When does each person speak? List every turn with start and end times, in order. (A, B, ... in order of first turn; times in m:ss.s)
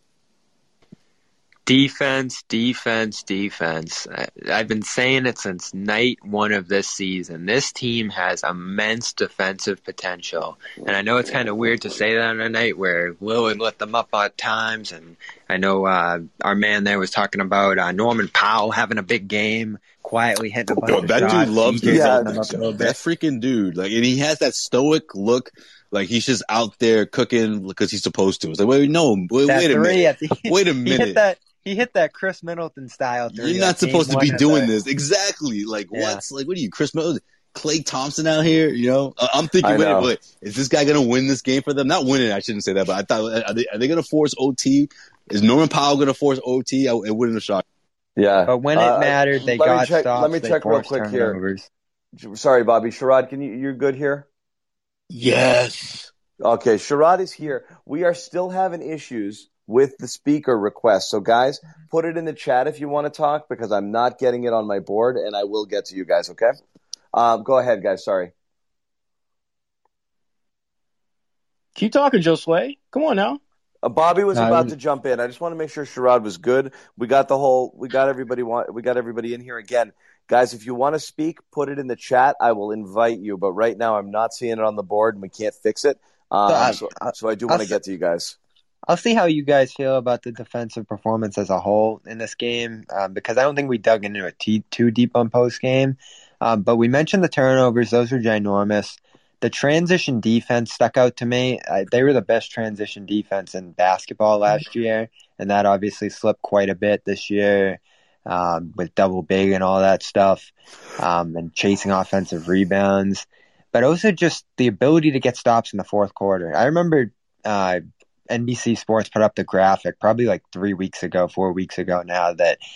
0:01.7-0:23.0 A
0:20.8-0:31.2 B
0:21.9-0:22.4 C
0:29.4-0:34.7 A
0:33.3-0:47.6 B
0:35.9-0:36.2 A
0:39.6-0:40.1 C
0:48.2-0:51.4 C
0:48.5-0:51.7 A
0:52.1-0:54.3 C
0:55.1-0:56.1 D
0:56.4-1:06.6 C
1:07.1-1:08.3 C
1:11.7-1:13.4 D
1:13.8-1:28.4 C
1:14.4-1:14.6 A
1:26.5-1:27.8 A
1:28.9-2:02.6 A